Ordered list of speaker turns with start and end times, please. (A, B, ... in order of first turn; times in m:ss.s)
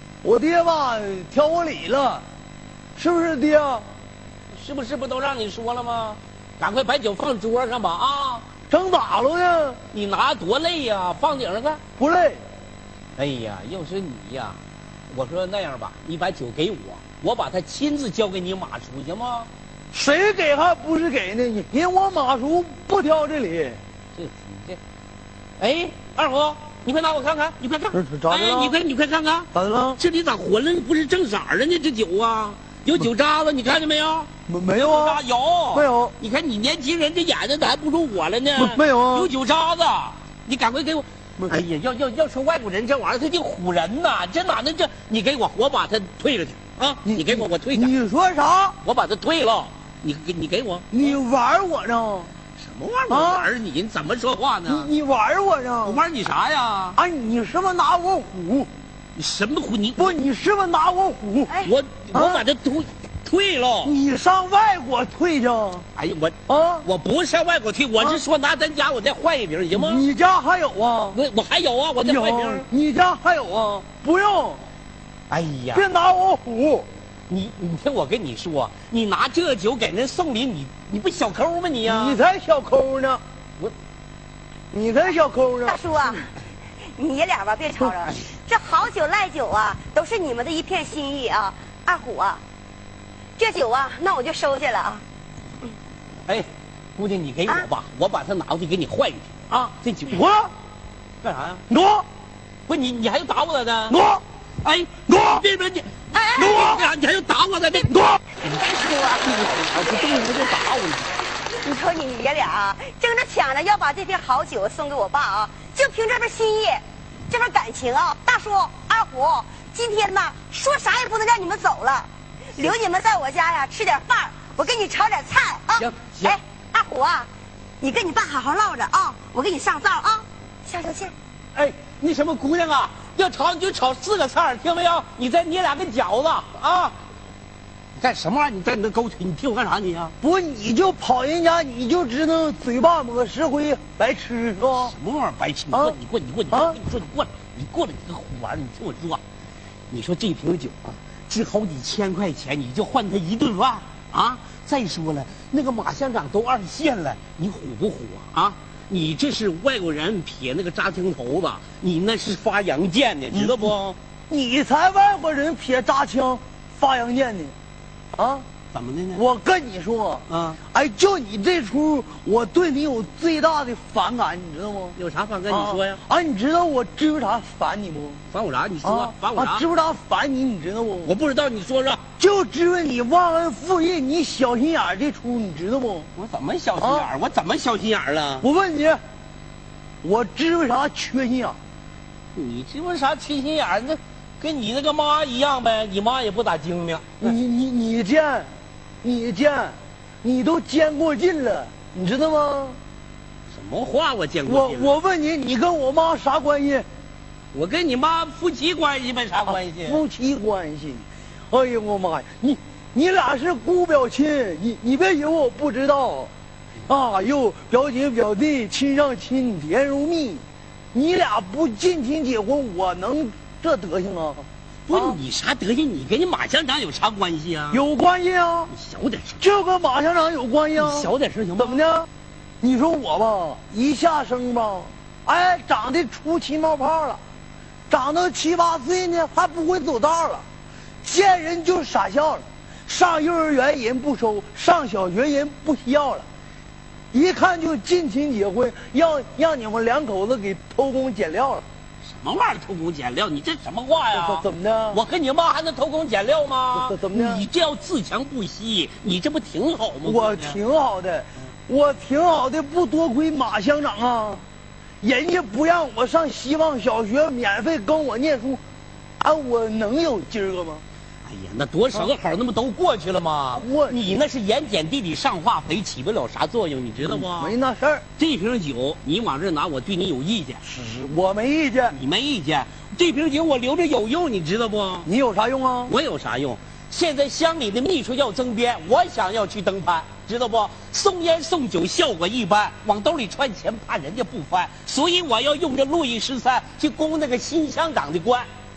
0:00.2-0:02.2 A
0:03.0-0:03.8 A
0:04.5-0:08.4 B
0:08.7-0:09.8 A
0:09.9-0:11.8 B
0:12.0-0:12.4 A
0:13.2-0:14.6 B
0:15.1-0:19.5 B
0:19.9-0:23.8 A
0:24.2-0:24.8 B
0:25.6-0:47.9 B
0:27.9-0:28.8 A
0:29.5-0:30.0 A
0:34.5-0:36.2 A
0:38.6-0:39.3 A
0:47.1-0:48.8 A
0:48.8-0:51.1 B
0:50.9-0:52.3 A
0:52.6-0:54.9 B
0:53.1-0:53.5 A
0:54.6-0:56.0 A
0:55.8-0:57.0 B
0:56.9-0:58.7 A
0:59.2-1:00.2 B
1:00.0-1:01.6 A
1:01.6-1:03.9 B
1:02.1-1:02.5 A
1:03.8-1:05.9 A
1:06.0-1:10.0 B
1:06.5-1:06.9 A
1:09.7-1:11.2 A
1:11.1-1:12.7 B
1:12.0-1:14.6 A
1:15.3-1:15.9 B
1:15.7-1:16.9 A
1:17.3-1:22.2 B
1:21.8-1:23.2 A
1:24.7-1:26.2 A
1:25.6-1:26.3 C
1:26.9-1:32.4 C
1:33.4-1:35.0 C
1:36.3-1:40.2 B
1:40.1-1:40.5 A
1:41.2-1:41.6 B
1:41.7-1:42.0 A
1:42.7-1:44.0 B
1:43.9-1:44.2 A
1:44.6-1:48.3 B
1:46.1-1:46.7 C
1:46.4-1:46.8 A
1:48.4-1:49.3 C
1:49.2-1:51.2 B
1:51.6-2:07.3 C
2:05.8-2:06.4 B
2:07.8-2:11.1 C
2:11.6-2:17.0 B
2:18.0-2:20.1 B
2:20.2-2:24.9 A
2:24.6-2:29.2 B
2:25.7-2:26.0 A
2:26.5-2:26.8 A
2:29.9-2:44.0 B
2:43.3-2:43.7 A
2:44.3-2:47.5 A
2:48.1-2:48.4 A
2:48.7-2:49.2 B
2:49.1-2:55.0 A
2:50.3-2:50.6 B
2:55.0-2:56.0 B
2:55.5-2:58.2 A
2:58.3-2:59.6 B
2:58.8-3:01.1 A
3:01.0-3:02.0 B
3:02.2-3:06.1 A
3:06.1-3:08.5 B
3:06.8-3:07.1 A
3:08.4-3:09.0 A
3:10.0-3:11.6 A
3:12.4-3:17.3 B
3:17.2-3:18.5 A
3:19.0-3:22.8 A
3:23.5-3:25.0 B
3:24.4-3:26.8 A
3:27.5-3:30.0 B
3:29.5-3:36.3 A
3:36.9-3:40.4 A
3:40.9-3:45.2 A
3:44.9-3:47.8 B
3:47.7-3:48.7 A
3:48.7-3:49.4 B
3:49.4-3:52.1 A
3:50.8-3:51.8 B
3:52.6-3:57.2 A
3:57.9-4:00.4 A
4:01.0-4:06.2 A
4:07.1-4:11.6 A
4:12.0-4:20.6 B
4:14.1-4:15.0 A
4:16.7-4:17.5 A
4:20.0-4:24.4 A
4:25.0-4:28.6 A
4:29.2-4:30.8 A
4:31.2-4:37.6 B
4:33.6-4:34.0 A
4:37.0-4:38.0 A
4:38.2-4:40.6 B
4:40.6-4:42.0 A
4:41.9-4:45.1 B
4:45.0-4:45.9 A
4:45.9-4:58.5 B